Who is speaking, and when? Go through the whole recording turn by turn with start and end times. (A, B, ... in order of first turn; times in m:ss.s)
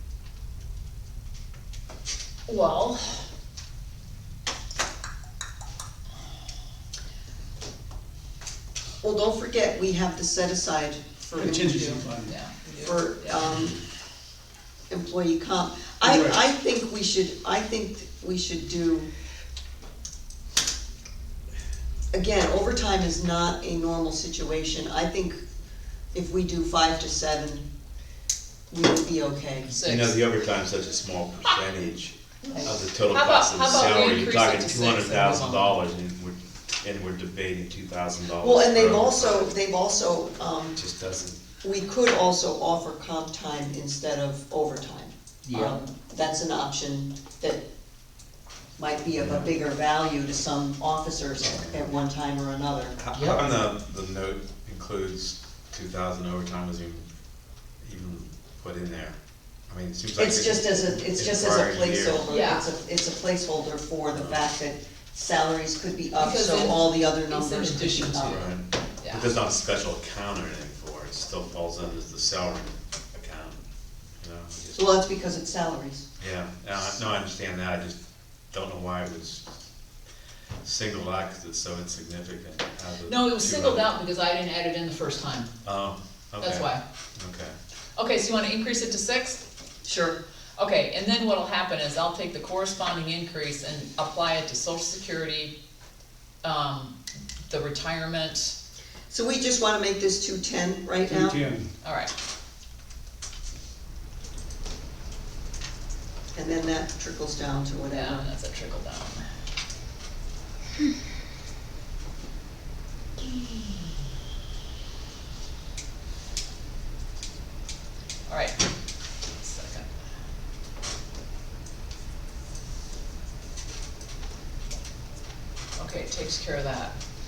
0:02.5-0:03.3 A
0:09.0-0:11.9 B
0:11.4-0:12.4 C
0:11.6-0:13.4 A
0:12.8-0:13.8 B
0:14.9-0:19.1 B
0:16.0-0:16.4 C
0:22.1-0:25.4 B
0:26.1-0:27.7 B
0:28.7-0:29.7 B
0:29.7-0:30.2 A
0:29.8-0:39.5 D
0:33.1-0:35.7 A
0:38.4-0:40.8 B
0:40.8-0:41.4 D
0:41.6-0:47.6 B
0:45.5-0:45.8 A
0:48.8-0:53.0 B
0:49.2-0:49.5 D
0:53.0-0:57.1 D
0:57.8-0:59.2 D
0:59.7-1:02.3 D
1:00.2-1:08.5 B
1:02.3-1:02.7 A
1:04.1-1:04.4 D
1:06.2-1:08.5 A
1:08.2-1:13.6 D
1:09.0-1:09.3 A
1:14.2-1:14.8 D
1:14.8-1:16.1 B
1:16.2-1:18.0 D
1:18.5-1:19.6 D
1:20.6-1:23.9 D
1:23.1-1:25.5 A
1:25.6-1:27.6 D
1:26.4-1:26.8 A
1:28.0-1:29.4 A
1:29.8-1:30.2 B
1:30.6-1:35.5 A
1:36.4-1:37.0 A
1:37.5-1:38.6 A
1:39.1-1:41.4 B
1:41.1-1:41.7 C
1:41.8-1:42.1 A
1:46.3-1:48.3 B
1:47.9-1:49.3 A
1:53.2-1:54.0 A
1:58.3-1:58.7 A
1:59.4-1:59.9 A
2:05.8-2:07.0 A